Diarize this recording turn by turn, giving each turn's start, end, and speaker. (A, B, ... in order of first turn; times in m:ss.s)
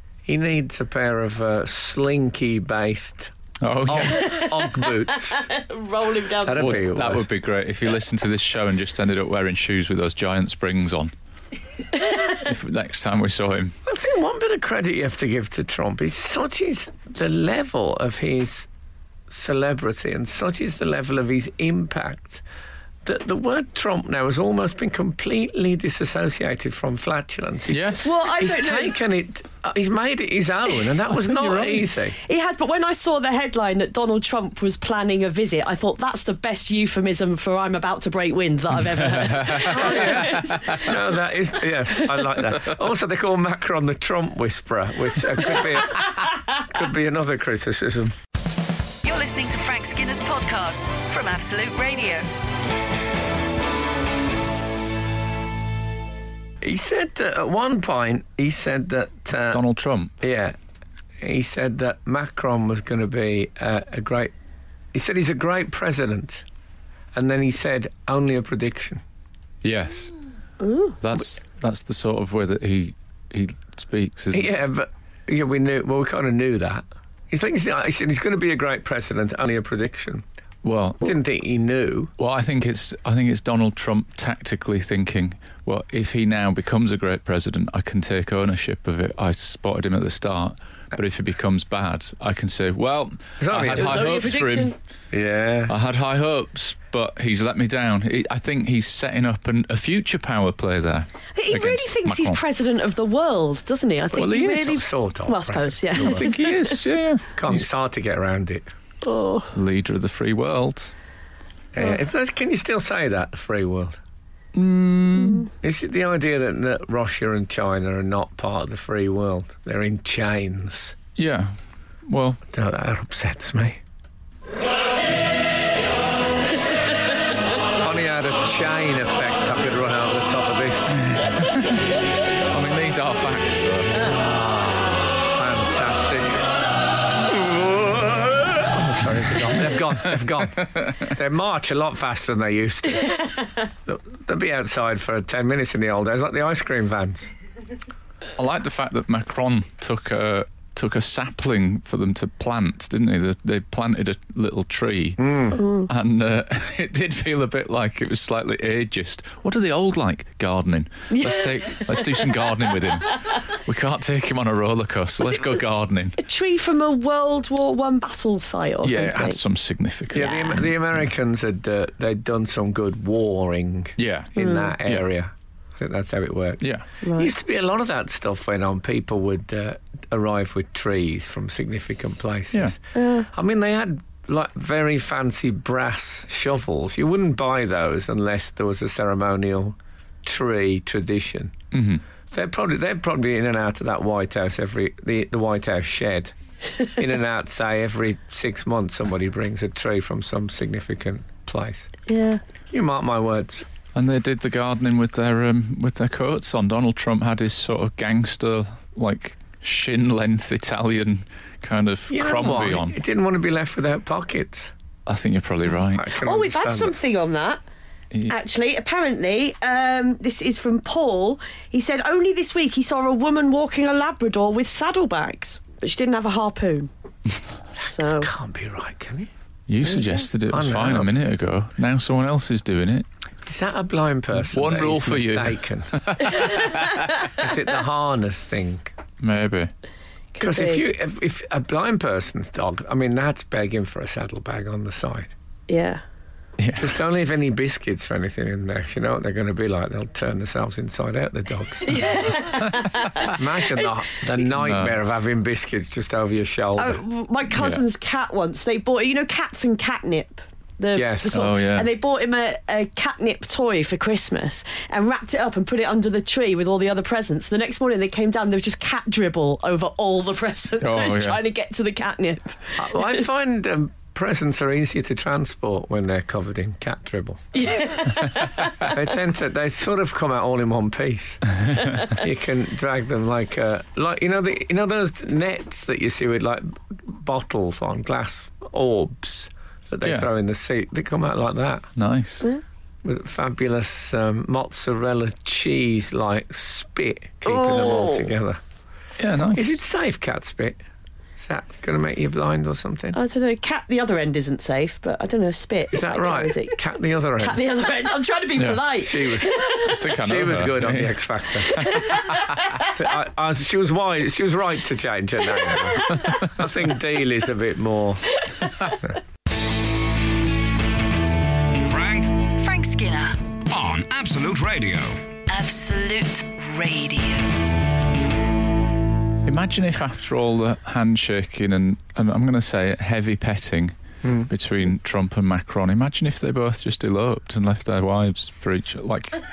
0:00.3-0:03.3 A
0:03.6-0:04.4 B
0:03.9-0:05.5 A
0:04.0-0:06.8 C
0:06.4-0:07.2 A
0:06.6-0:11.1 B
0:12.2-0:13.8 B
0:13.9-0:18.7 A
0:19.3-0:22.4 A
0:23.0-0:32.2 A
0:27.7-0:28.1 B
0:28.0-0:29.0 C
0:31.1-0:31.9 B
0:32.2-0:40.9 C
0:38.9-0:41.0 B
0:39.6-0:48.2 A
0:49.0-0:52.3 D
0:56.6-0:59.6 A
0:59.5-1:00.1 B
1:00.2-1:00.6 A
1:01.2-1:04.3 A
1:04.9-1:06.4 A
1:07.2-1:09.0 A
1:09.6-1:10.1 B
1:10.6-1:11.0 C
1:11.0-1:14.5 B
1:14.3-1:20.2 A
1:20.6-1:21.1 B
1:21.0-1:22.1 A
1:22.2-1:34.8 B
1:33.4-1:34.4 A
1:33.7-1:34.8 C
1:35.1-1:35.7 A
1:35.7-1:42.4 B
1:41.4-1:46.8 C
1:44.1-1:44.9 B
1:44.2-1:46.4 A
1:46.0-1:47.6 B
1:47.4-1:48.6 A
1:49.0-1:49.6 C
1:49.5-1:50.9 B
1:51.7-1:54.0 A
1:54.5-1:55.5 B
1:55.2-1:55.5 C
1:55.6-2:01.0 A
2:01.2-2:01.5 B
2:02.1-2:02.4 B
2:02.5-2:03.8 A
2:07.8-2:11.0 A
2:11.0-2:11.8 B
2:12.5-2:14.1 B
2:14.1-2:16.4 A
2:17.2-2:23.3 A
2:20.6-2:21.1 B
2:23.9-2:27.3 A
2:28.4-2:46.2 B
2:35.2-2:35.6 A
2:35.6-2:35.9 C
2:41.1-2:42.3 C
2:46.2-2:49.4 C
2:48.8-2:50.8 B
2:50.1-3:11.5 A
2:50.2-2:50.6 C
2:54.0-2:55.0 B
2:54.4-2:54.7 C
2:57.0-2:57.3 C
3:03.0-3:03.3 C
3:11.7-3:12.0 B
3:12.3-3:16.3 A
3:16.9-3:21.9 A
3:22.1-3:22.4 C
3:22.7-3:23.7 A
3:24.0-3:33.0 B
3:32.1-3:34.7 A
3:35.1-3:36.1 B
3:35.9-3:37.0 A
3:36.2-3:37.6 C
3:38.3-3:46.9 C
3:47.8-3:48.3 C
3:48.2-3:49.3 A
3:49.7-3:53.1 B
3:49.8-3:50.3 C
3:50.5-3:51.1 A
3:53.5-3:56.5 A
3:54.4-3:57.1 B
3:56.5-3:57.4 C
3:57.2-3:58.9 A
3:59.2-3:59.7 B
4:00.4-4:00.8 C
4:00.4-4:05.3 A
4:05.7-4:06.0 C
4:06.6-4:07.0 B
4:06.8-4:12.2 A
4:11.8-4:13.9 C
4:13.2-4:17.0 A
4:14.6-4:15.0 B
4:16.8-4:33.2 C
4:17.5-4:17.8 B
4:21.0-4:21.5 A
4:21.3-4:21.9 B
4:30.8-4:31.4 B
4:32.8-4:37.5 A
4:37.5-4:39.0 C
4:38.8-4:41.4 A
4:41.8-4:42.1 C
4:42.0-4:51.9 A
4:52.0-4:52.5 B
4:53.0-4:58.6 A
4:57.4-4:58.3 C
4:59.2-4:59.8 B
4:59.4-5:00.8 A
5:01.4-5:03.2 A
5:03.1-5:06.8 C
5:05.9-5:07.6 A
5:07.4-5:10.0 C
5:08.6-5:08.9 B
5:09.0-5:11.9 A
5:09.8-5:12.2 B
5:11.7-5:12.9 C
5:12.8-5:18.4 A
5:15.6-5:16.5 C
5:18.4-5:19.0 C
5:21.8-5:22.5 E
5:22.5-5:23.4 D
5:23.7-5:25.2 E
5:25.5-5:27.6 D
5:29.4-5:33.9 B
5:34.2-5:34.5 A
5:34.5-5:39.4 B